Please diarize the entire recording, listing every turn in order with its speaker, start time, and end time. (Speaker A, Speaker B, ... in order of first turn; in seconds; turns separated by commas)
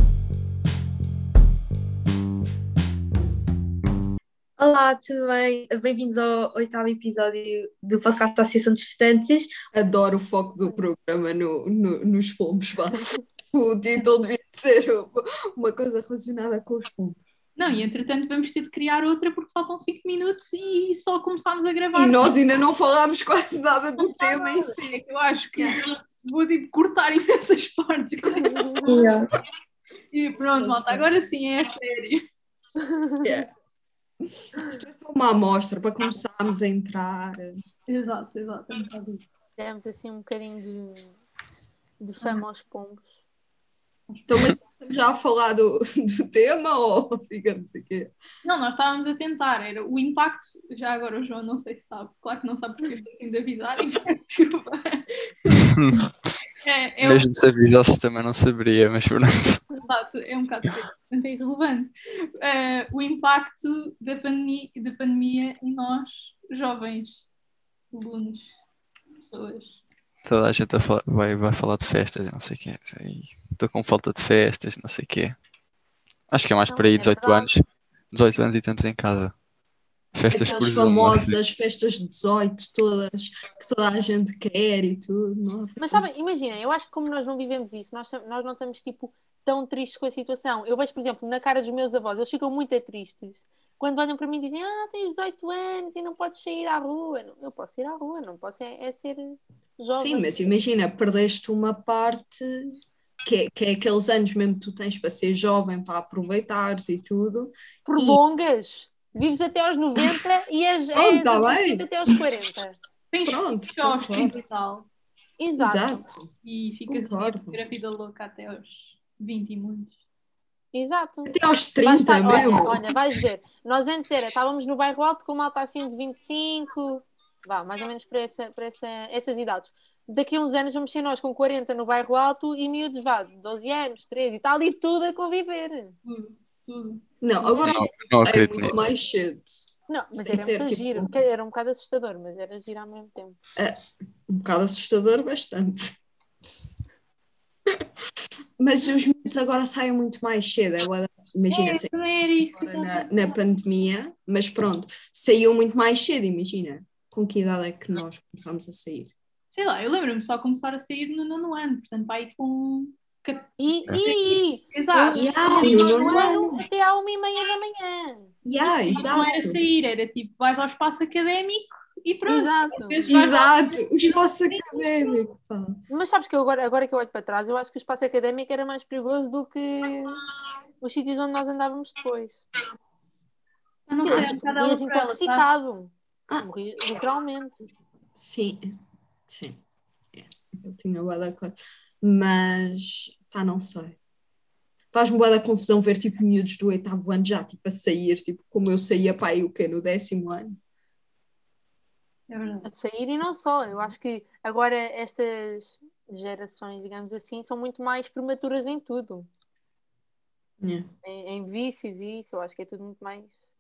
Speaker A: 4.6-9.5, Speaker B: 9.7-17.2, Speaker C: 17.6-22.3, Speaker B: 21.9-25.0, Speaker C: 24.0-29.0, Speaker D: 28.4-28.9, Speaker A: 28.9-29.3, Speaker C: 30.1-32.2, Speaker B: 30.6-31.1, Speaker D: 32.9-33.2, Speaker B: 33.2-33.5, Speaker B: 34.5-37.6, Speaker C: 37.9-39.3, Speaker D: 39.6-41.1, Speaker D: 42.0-43.1, Speaker C: 44.1-44.6, Speaker B: 44.3-48.1, Speaker C: 48.4-55.6, Speaker E: 55.8-56.1, Speaker C: 56.6-57.3, Speaker E: 57.0-59.6, Speaker C: 59.7-67.2, Speaker C: 67.9-68.5, Speaker C: 69.2-69.7, Speaker E: 70.2-75.4, Speaker E: 76.3-79.3, Speaker D: 76.7-77.5, Speaker E: 80.1-81.4, Speaker B: 80.3-86.1, Speaker D: 85.8-100.5, Speaker B: 99.9-108.2, Speaker D: 107.8-112.8, Speaker B: 110.9-112.1, Speaker C: 113.1-114.9, Speaker B: 113.2-114.3, Speaker D: 115.4-116.0, Speaker B: 115.6-116.3, Speaker C: 116.5-120.0, Speaker B: 116.9-117.6, Speaker D: 120.7-135.9, Speaker B: 121.2-122.8, Speaker C: 136.0-137.8, Speaker B: 137.2-141.1, Speaker E: 137.6-138.8, Speaker D: 139.9-143.3, Speaker B: 143.6-145.9, Speaker B: 148.6-151.9, Speaker C: 151.5-153.4, Speaker B: 152.5-159.1, Speaker C: 159.5-166.6, Speaker D: 163.6-168.3, Speaker B: 165.1-166.4, Speaker B: 168.4-169.6, Speaker C: 168.6-175.1, Speaker D: 172.3-173.0, Speaker B: 173.1-175.8, Speaker D: 175.9-180.2, Speaker D: 180.8-182.4, Speaker C: 183.9-185.5, Speaker D: 184.0-187.6, Speaker B: 184.0-184.3, Speaker B: 188.2-188.7, Speaker B: 189.3-189.6, Speaker B: 190.1-194.0, Speaker B: 194.9-200.6, Speaker C: 202.3-202.7, Speaker D: 202.6-209.3, Speaker B: 210.6-210.8, Speaker D: 211.0-213.3